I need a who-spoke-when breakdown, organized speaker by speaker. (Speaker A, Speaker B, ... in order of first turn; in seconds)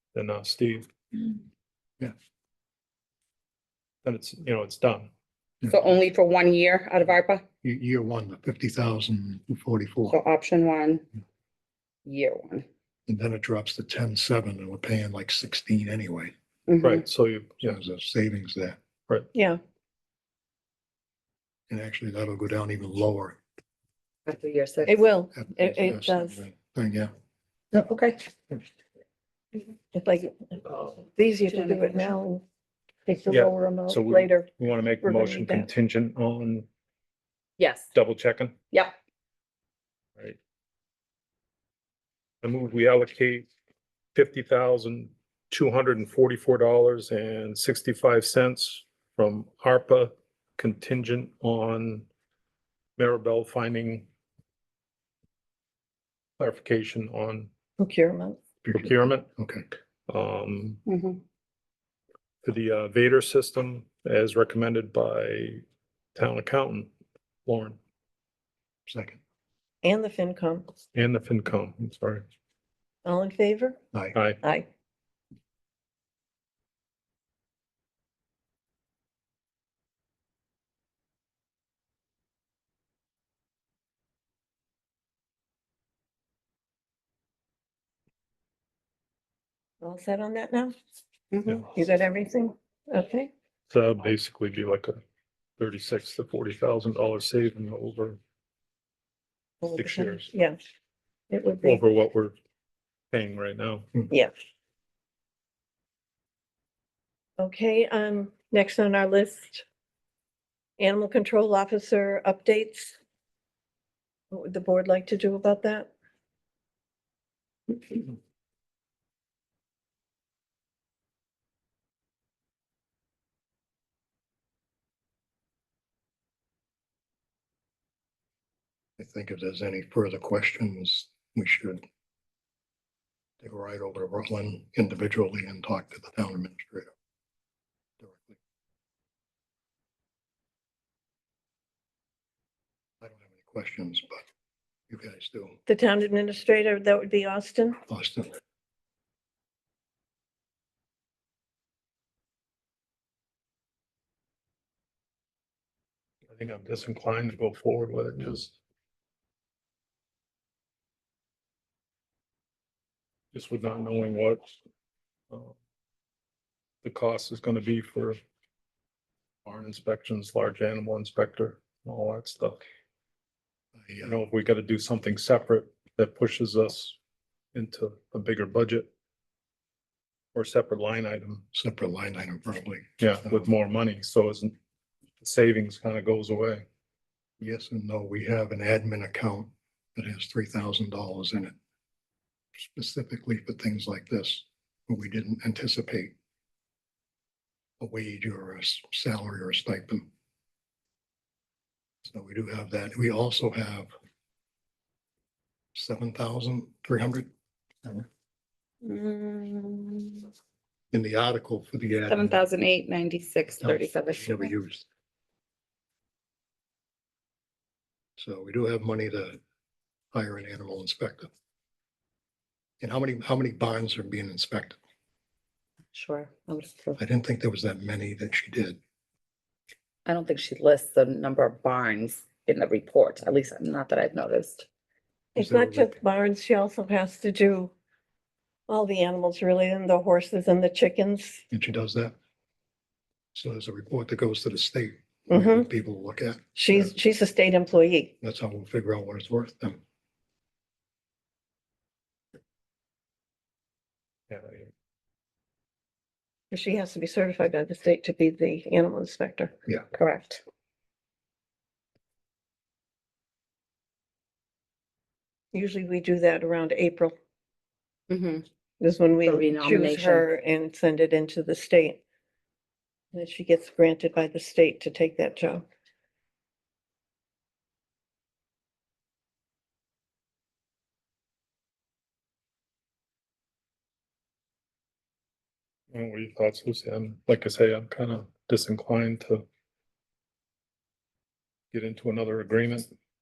Speaker A: 0.1-0.9, 4.0-5.1, 16.8-17.8, 33.3-36.7, 37.9-38.5, 42.4-43.5, 44.1-52.1, 53.0-54.1, 56.4-57.5, 58.6-59.3, 60.1-60.8, 62.4-65.6, 66.1-66.9, 67.5-67.8, 70.9-72.2, 74.1-74.4, 93.7-95.0, 95.6-98.2, 99.8-100.3, 101.6-102.3, 103.1-103.9, 156.3-158.6, 163.3-164.4, 165.3-165.6, 166.8-168.2, 169.4-172.6, 174.0-177.0, 177.5-178.9, 180.3-181.4, 183.0-184.6, 185.2-186.6, 254.3-254.7, 285.9-289.4, 291.7-292.9
Speaker B: 5.7-7.4, 10.1-11.0, 12.0-12.7, 16.7-17.0, 24.2-25.0, 27.7-28.3, 31.5-32.1, 33.1-34.0, 37.6-37.9, 60.9-61.2, 91.3-91.6, 208.8-210.3, 212.1-214.5, 225.9-227.0, 230.1-234.7, 259.9-260.4, 268.1-268.4, 269.2-270.3
Speaker C: 7.6-10.2, 13.1-16.3, 17.6-18.8, 21.7-23.4, 25.3-27.1, 58.6-59.7, 68.9-69.2, 129.0-131.8, 133.4-136.9, 138.0-138.4, 143.0-144.2, 144.9-145.6, 147.9-148.3, 173.8-174.1, 181.5-183.5, 187.4-191.5, 192.5-196.1, 197.8-200.1, 202.0-203.9, 205.7-207.3, 210.9-212.4, 213.6-214.8, 218.2-219.4, 220.1-221.3, 222.8-224.8, 227.0-228.8, 235.4-235.9, 241.5-242.1, 243.3-246.8, 248.2-249.8
Speaker D: 19.3-19.6, 24.9-26.4, 29.9-32.4, 33.9-34.5, 35.0-35.7, 57.8-58.4, 69.8-70.7, 73.0-73.8, 74.4-74.7, 89.8-90.7, 91.6-93.3, 99.6-100.6, 101.3-101.8, 107.4-109.6, 110.8-113.0, 114.3-115.9, 145.7-147.8, 235.3-237.7, 238.7-241.4, 245.3-245.7, 246.5-248.1, 256.5-259.5, 265.5-267.1, 268.8-272.0, 273.1-275.6